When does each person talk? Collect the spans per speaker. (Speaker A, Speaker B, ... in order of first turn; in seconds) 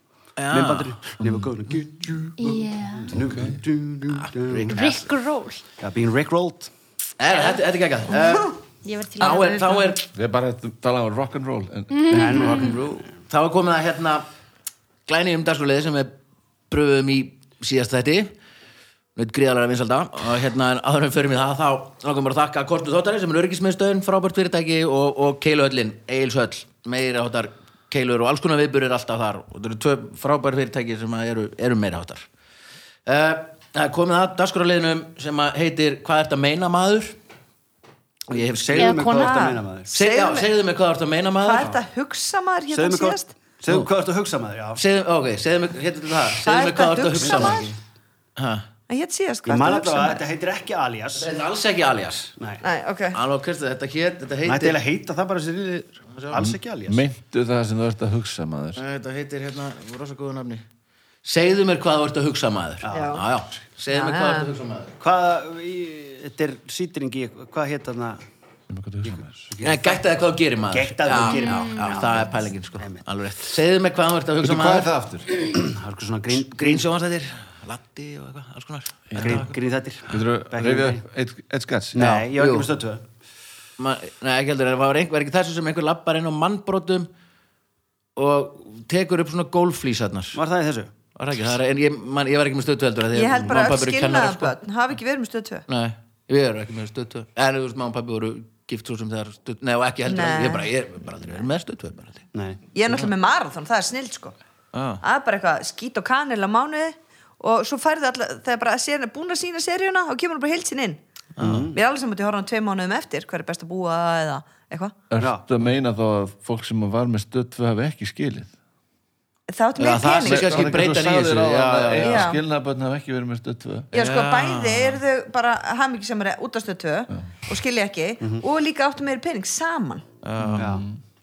Speaker A: 0.4-1.1, 4.1-5.1, 7.2-8.6, 9.2-10.1, 12.1-14.3, 15.1-16.1, 16.7-18.3, 19.2-32.3, 33.1-37.2, 38.3-39.1, 39.9-41.7, 44.8-47.8, 48.4-48.7, 51.1-52.4, 53.1-54.8, 56.1-56.4, 58.8-60.6, 61.2-65.0, 69.6-74.9, 76.3-79.6, 82.0-82.7, 83.8-87.1, 88.2-90.4, 91.2-94.5, 95.7-102.3, 104.7-105.0, 111.4-111.7, 119.8-122.3, 123.9-125.0, 130.2-130.8
Speaker B: 0.5-4.8, 5.8-6.7, 12.1-12.9, 38.3-39.9, 42.7-44.8, 47.2-47.6, 49.5-51.3, 54.5-57.0, 62.8-63.2, 65.0-68.2, 69.1-70.0, 70.7-73.0, 75.4-76.9, 79.2-81.0, 81.9-83.0, 90.3-90.9, 102.3-102.6, 111.4-111.8, 115.2-115.5, 130.6-130.8
Speaker C: 2.4-3.1, 4.7-5.6, 8.8-9.9, 11.9-12.7, 38.8-39.6, 71.2-72.1
Speaker D: 3.1-3.6, 10.1-12.7, 56.4-58.8, 68.7-69.5, 74.4-75.5, 79.1-79.5, 80.1-82.0, 115.1-118.5, 120.2-123.9, 130.4-131.0
Speaker E: 39.1-40.5, 41.4-43.3, 46.4-47.7, 48.9-50.2, 52.6-53.2, 62.9-63.2, 63.9-64.5, 93.1-95.7, 100.1-100.7, 102.7-104.3, 105.0-111.0, 111.7-115.0, 119.5-120.7, 122.0-122.4, 123.9-130.0